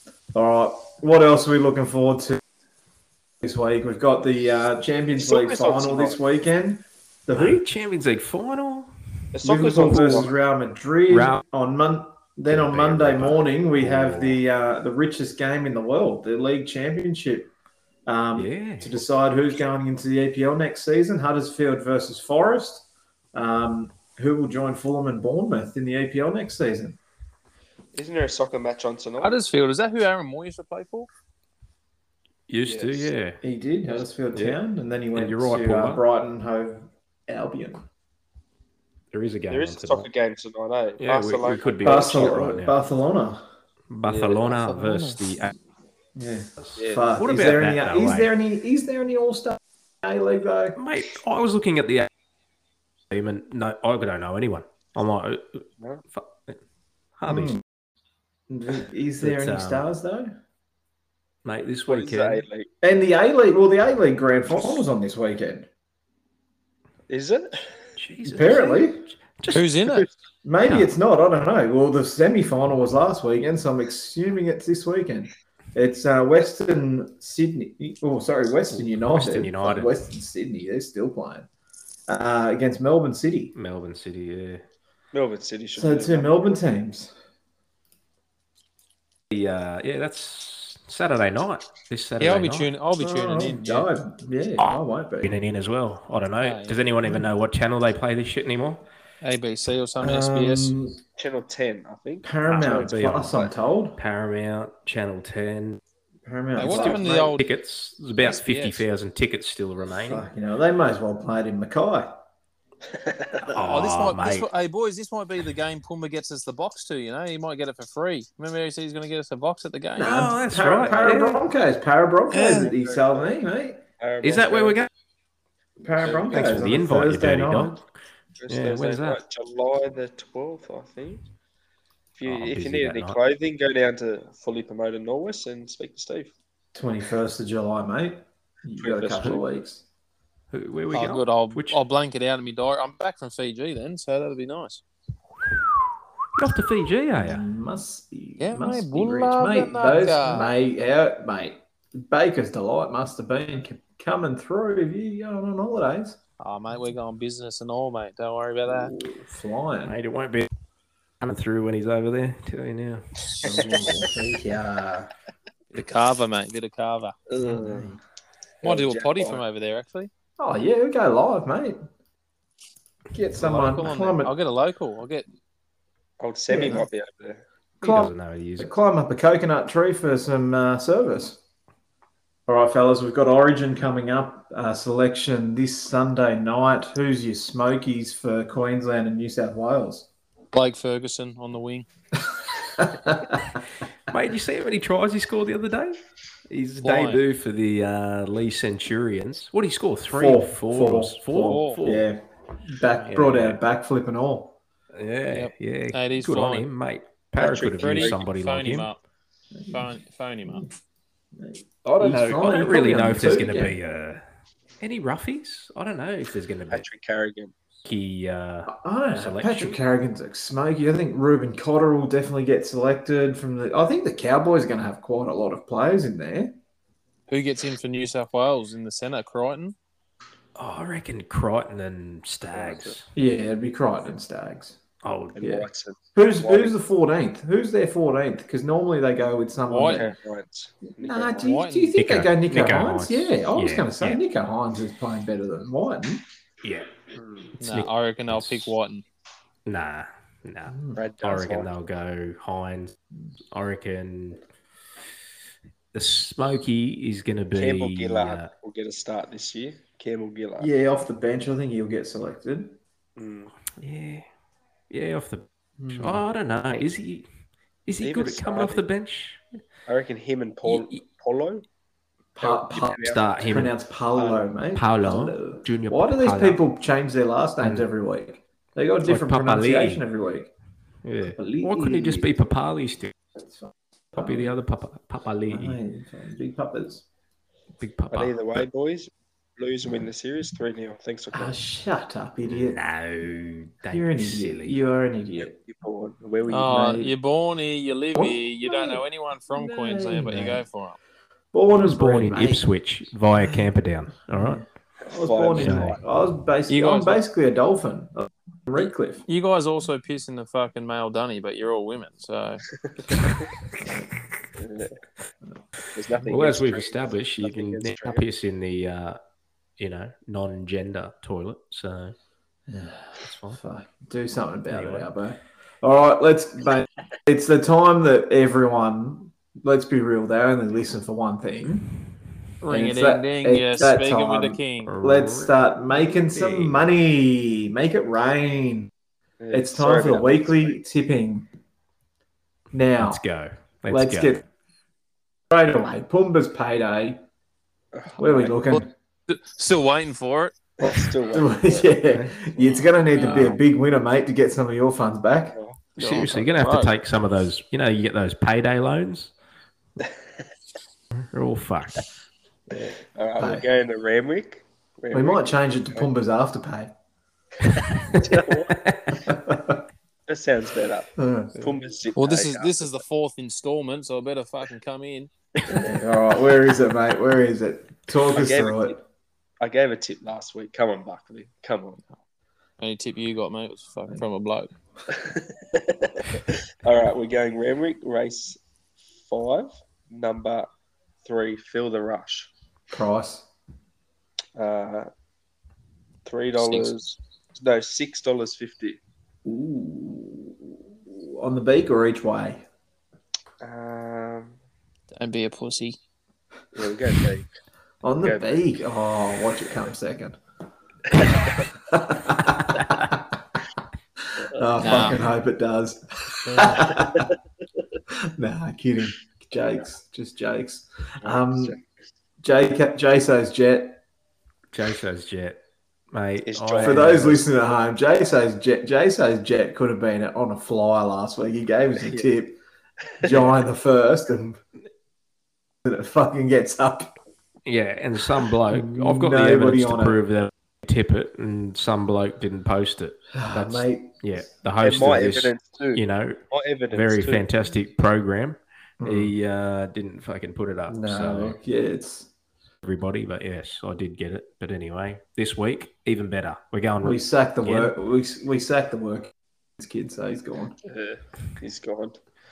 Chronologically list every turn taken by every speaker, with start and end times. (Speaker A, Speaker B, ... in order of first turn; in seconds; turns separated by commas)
Speaker A: 0.3-2.4, Speaker A: 3.4-7.6, Speaker B: 5.2-6.2, Speaker C: 7.3-8.9, Speaker B: 9.3-10.3, Speaker A: 9.4-17.5, Speaker C: 11.1-11.4, Speaker C: 12.5-14.4, Speaker A: 18.1-27.0, Speaker C: 18.4-19.0, Speaker B: 27.9-29.4, Speaker D: 29.2-31.1, Speaker C: 32.5-33.4, Speaker B: 32.6-33.1, Speaker A: 33.4-37.9, Speaker C: 34.3-34.6, Speaker C: 35.1-36.0, Speaker C: 39.1-40.1, Speaker B: 39.5-42.5, Speaker C: 41.0-42.8, Speaker A: 41.8-43.5, Speaker C: 43.9-45.5, Speaker B: 44.1-44.4, Speaker D: 44.4-45.2, Speaker A: 46.1-50.8, Speaker C: 46.6-48.3, Speaker B: 46.8-47.1, Speaker C: 50.8-52.1, Speaker C: 53.1-56.6, Speaker C: 57.2-57.6, Speaker A: 57.3-57.6, Speaker A: 58.5-60.4, Speaker C: 59.2-59.9, Speaker C: 61.4-62.4, Speaker B: 61.9-62.7, Speaker A: 62.8-65.7, Speaker B: 67.1-67.8, Speaker C: 68.0-70.1, Speaker A: 68.2-69.1, Speaker D: 69.5-70.1, Speaker A: 70.4-81.5, Speaker C: 70.6-70.9, Speaker C: 78.7-80.0, Speaker A: 82.1-83.5, Speaker C: 83.5-84.6, Speaker B: 85.1-86.6, Speaker A: 85.8-87.1, Speaker C: 89.3-92.7, Speaker D: 92.2-93.9, Speaker A: 93.0-95.4, Speaker C: 95.2-98.9, Speaker D: 96.4-96.8, Speaker D: 99.2-100.7, Speaker A: 100.0-101.0, Speaker B: 101.2-102.9, Speaker A: 102.2-104.0, Speaker C: 102.5-105.8, Speaker A: 106.2-107.4, Speaker D: 106.6-107.4, Speaker C: 106.6-110.3, Speaker D: 108.2-108.8, Speaker A: 110.0-112.2, Speaker B: 113.0-113.5, Speaker D: 113.5-120.3, Speaker C: 113.5-114.5, Speaker A: 120.0-123.8, Speaker C: 120.0-121.4, Speaker D: 122.3-122.7, Speaker B: 122.4-123.4, Speaker B: 124.0-124.8, Speaker C: 124.2-124.9, Speaker A: 125.8-127.8, Speaker B: 126.0-126.4, Speaker C: 126.3-127.9, Speaker B: 128.4-131.2, Speaker C: 128.5-129.2, Speaker B: 132.2-136.3, Speaker C: 132.2-133.2, Speaker A: 136.7-139.8, Speaker B: 138.8-139.4, Speaker C: 140.5-141.8, Speaker D: 140.9-144.8, Speaker C: 146.4-147.4, Speaker A: 147.2-156.2, Speaker D: 148.4-150.5, Speaker D: 156.4-158.9, Speaker A: 158.7-160.0, Speaker C: 159.8-160.5, Speaker C: 161.2-163.3, Speaker A: 163.4-165.1, Speaker D: 165.7-167.2, Speaker B: 167.3-168.0, Speaker A: 167.4-168.0, Speaker B: 168.6-169.4, Speaker D: 168.6-170.1, Speaker A: 170.4-171.9, Speaker A: 173.1-174.4, Speaker D: 173.4-175.3, Speaker B: 176.2-177.4, Speaker A: 176.5-176.9, Speaker C: 177.8-178.7, Speaker A: 177.8-181.4, Speaker A: 182.5-190.1, Speaker D: 190.5-191.9, Speaker A: 192.6-193.4, Speaker C: 194.1-202.1, Speaker D: 196.8-197.2, Speaker A: 200.1-204.6, Speaker D: 201.4-201.8, Speaker C: 203.0-203.6, Speaker C: 204.9-208.9, Speaker D: 205.3-206.7, Speaker B: 207.4-208.2, Speaker D: 207.6-209.0, Speaker A: 209.5-210.7, Speaker D: 209.7-210.7, Speaker A: 211.3-213.8, Speaker C: 212.0-214.2, Speaker C: 214.8-216.8, Speaker B: 216.7-217.5, Speaker C: 217.8-219.8, Speaker A: 218.7-226.6, Speaker D: 227.3-229.8, Speaker C: 230.6-233.1, Speaker B: 232.5-233.0, Speaker A: 233.2-234.8, Speaker C: 235.0-235.6, Speaker B: 235.3-236.8, Speaker A: 236.2-240.1, Speaker D: 239.7-240.1, Speaker B: 239.9-241.5, Speaker A: 241.0-246.2, Speaker D: 241.4-242.0, Speaker C: 242.0-244.2, Speaker C: 246.6-246.9, Speaker D: 247.6-249.1, Speaker C: 247.6-248.8, Speaker C: 249.7-253.0, Speaker A: 250.7-251.0, Speaker B: 250.9-251.7, Speaker C: 253.5-254.4, Speaker C: 255.9-258.5, Speaker B: 257.5-260.7, Speaker A: 260.6-262.8, Speaker B: 263.2-263.5, Speaker C: 263.8-264.3, Speaker C: 264.9-267.3, Speaker A: 265.8-266.2, Speaker C: 267.9-269.4, Speaker B: 268.0-268.8, Speaker B: 269.9-271.6, Speaker C: 270.7-271.0, Speaker A: 272.4-280.5, Speaker B: 272.4-273.4, Speaker C: 272.9-273.7, Speaker C: 274.7-276.6, Speaker C: 277.6-277.9, Speaker C: 279.0-280.0, Speaker C: 281.0-283.1, Speaker A: 281.2-282.3, Speaker A: 283.4-284.6, Speaker C: 284.2-285.8, Speaker A: 285.5-287.1, Speaker C: 287.8-288.7, Speaker B: 288.1-291.6, Speaker A: 291.3-292.8, Speaker C: 292.4-294.8, Speaker A: 293.9-295.6, Speaker B: 295.4-297.1, Speaker D: 296.5-301.0, Speaker A: 296.6-297.1, Speaker A: 298.1-300.6, Speaker A: 301.5-302.6, Speaker C: 301.7-304.6, Speaker A: 303.4-303.7, Speaker A: 304.3-309.2, Speaker B: 305.1-305.9, Speaker C: 305.6-306.0, Speaker D: 306.7-307.2, Speaker D: 309.3-312.6, Speaker A: 313.8-314.1, Speaker B: 314.6-315.0, Speaker B: 315.9-318.2, Speaker C: 316.3-319.2, Speaker C: 319.8-322.1, Speaker A: 322.7-331.9, Speaker C: 323.2-323.6, Speaker C: 324.7-325.1, Speaker D: 332.6-334.9, Speaker A: 332.7-338.9, Speaker C: 334.8-335.6, Speaker C: 336.1-336.8, Speaker B: 339.4-340.8, Speaker A: 339.5-341.5, Speaker A: 342.7-343.2, Speaker C: 343.0-344.4, Speaker A: 343.9-344.4, Speaker A: 345.5-347.2, Speaker B: 347.9-348.6, Speaker A: 348.2-348.9, Speaker D: 348.7-350.6, Speaker B: 350.8-352.0, Speaker A: 351.3-355.6, Speaker C: 352.1-352.4, Speaker D: 353.1-353.6, Speaker B: 355.5-355.8, Speaker D: 356.0-356.9, Speaker C: 356.0-359.3, Speaker B: 360.0-360.2, Speaker C: 361.2-362.1, Speaker B: 362.7-366.1, Speaker A: 363.4-363.7, Speaker A: 365.1-366.9, Speaker B: 368.1-368.8, Speaker C: 368.7-369.1, Speaker A: 369.3-369.8, Speaker B: 370.3-373.0, Speaker A: 371.2-371.6, Speaker D: 372.1-375.3, Speaker A: 375.7-379.0, Speaker B: 378.3-379.0, Speaker B: 379.6-382.0, Speaker D: 382.8-384.7, Speaker B: 385.1-388.6, Speaker B: 389.2-390.7, Speaker B: 391.2-392.5, Speaker A: 392.9-393.5, Speaker B: 394.6-395.1, Speaker B: 396.3-399.0, Speaker A: 399.4-402.6, Speaker B: 403.6-404.6, Speaker D: 405.1-406.0, Speaker B: 406.7-407.5, Speaker A: 408.0-410.4, Speaker B: 408.2-408.8, Speaker B: 411.1-411.6, Speaker A: 411.6-413.2, Speaker B: 414.4-414.7, Speaker A: 414.5-417.3, Speaker D: 414.8-415.3, Speaker B: 416.8-417.3, Speaker A: 418.1-421.8, Speaker B: 421.2-421.8, Speaker A: 422.4-424.0, Speaker C: 424.7-425.6, Speaker C: 426.1-427.4, Speaker B: 426.5-427.4, Speaker A: 426.8-432.6, Speaker B: 432.0-432.3, Speaker A: 433.2-434.6, Speaker A: 435.8-437.1, Speaker C: 437.6-446.4, Speaker A: 438.7-440.2, Speaker A: 443.3-444.4, Speaker B: 444.8-447.5, Speaker C: 446.9-451.6, Speaker A: 449.0-449.3, Speaker A: 450.9-452.3, Speaker C: 452.8-457.9, Speaker A: 457.0-460.8, Speaker B: 460.8-462.2